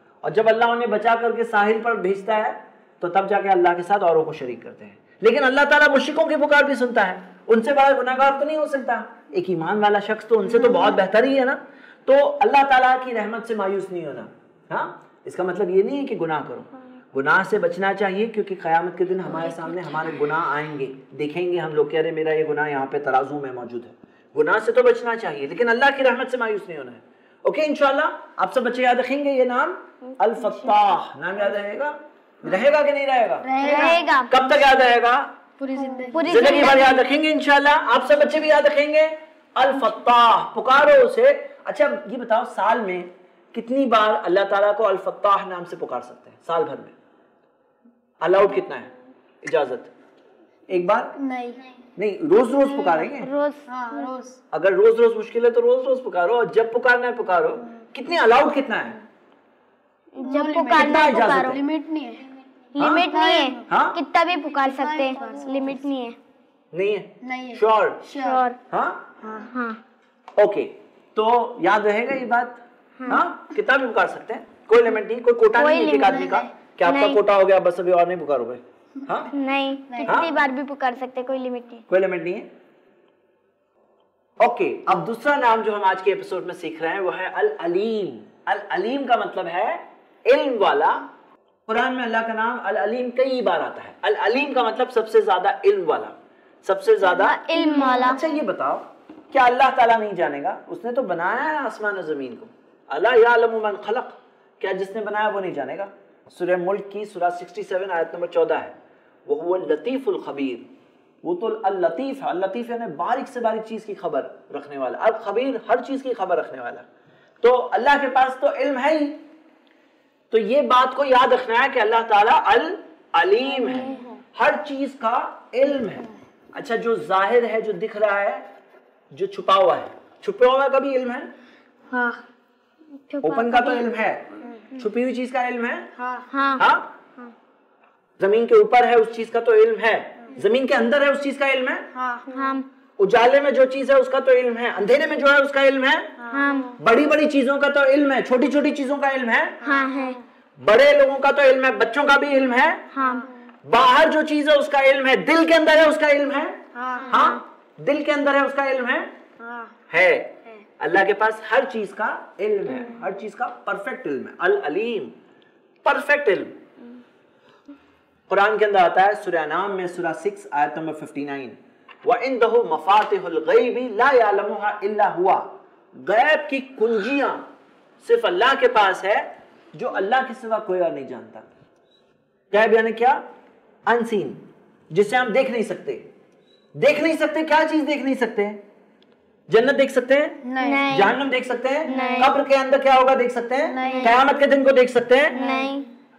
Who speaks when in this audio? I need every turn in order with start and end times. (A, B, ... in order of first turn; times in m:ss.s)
0:00.2-0:33.5 A
0:19.4-0:20.1 B
0:30.4-0:30.7 B
0:33.4-0:34.1 C
0:33.6-0:34.3 B
0:34.3-0:35.3 A
0:35.6-0:36.7 C
0:36.0-0:37.0 B
0:36.2-0:46.9 A
0:48.2-0:48.9 A
0:49.4-0:49.9 A
0:50.7-0:51.2 A
0:51.2-0:51.6 C
0:52.0-0:53.3 A
0:53.2-0:54.1 B
0:53.7-0:54.4 C
0:54.5-0:59.0 A
1:00.1-1:01.6 B
1:00.2-1:02.3 C
1:00.7-1:01.6 A
1:02.7-1:06.2 B
1:02.8-1:03.1 A
1:02.8-1:03.7 C
1:03.7-1:04.0 A
1:04.6-1:05.9 C
1:06.7-1:08.0 A
1:07.2-1:08.4 C
1:08.1-1:08.6 B
1:08.7-1:09.1 A
1:09.2-1:09.5 C
1:09.5-1:09.8 B
1:10.4-1:19.3 A
1:15.5-1:16.3 B
1:16.0-1:16.5 C
1:16.8-1:17.2 B
1:19.3-1:21.8 B
1:19.9-1:20.3 C
1:20.0-1:20.3 A
1:21.9-1:22.5 A
1:24.4-1:31.1 A
1:31.7-1:37.4 A
1:37.0-1:38.2 B
1:38.0-1:48.7 A
1:49.3-1:50.7 A
1:51.2-1:56.8 A
1:57.4-1:59.2 A
2:00.3-2:08.5 A
2:03.6-2:04.0 B
2:09.1-2:11.3 A
2:11.9-2:12.2 C
2:13.1-2:13.9 B
2:13.2-2:15.9 A
2:16.0-2:16.3 C
2:16.3-2:16.6 B
2:16.6-2:17.0 A
2:18.2-2:21.9 A
2:21.9-2:22.5 C
2:22.3-2:22.6 B
2:23.0-2:29.6 A
2:26.2-2:26.7 C
2:26.3-2:26.8 B
2:29.6-2:30.2 C
2:29.6-2:30.2 B
2:30.6-2:32.9 A
2:32.9-2:33.3 B
2:33.0-2:33.3 C
2:33.6-2:39.2 A
2:36.7-2:37.3 C
2:37.0-2:37.4 B
2:39.4-2:39.7 C
2:39.9-2:45.2 A
2:45.8-2:46.6 A
2:48.3-2:57.5 A
2:58.0-3:01.4 A
3:02.5-3:03.2 A
3:03.8-3:06.1 A
3:06.7-3:08.6 A
3:09.5-3:15.4 A
3:10.4-3:10.9 C
3:10.6-3:11.2 B
3:11.8-3:12.3 B
3:11.9-3:12.3 C
3:13.6-3:14.2 C
3:13.8-3:14.2 B
3:15.3-3:15.9 B
3:15.3-3:15.8 C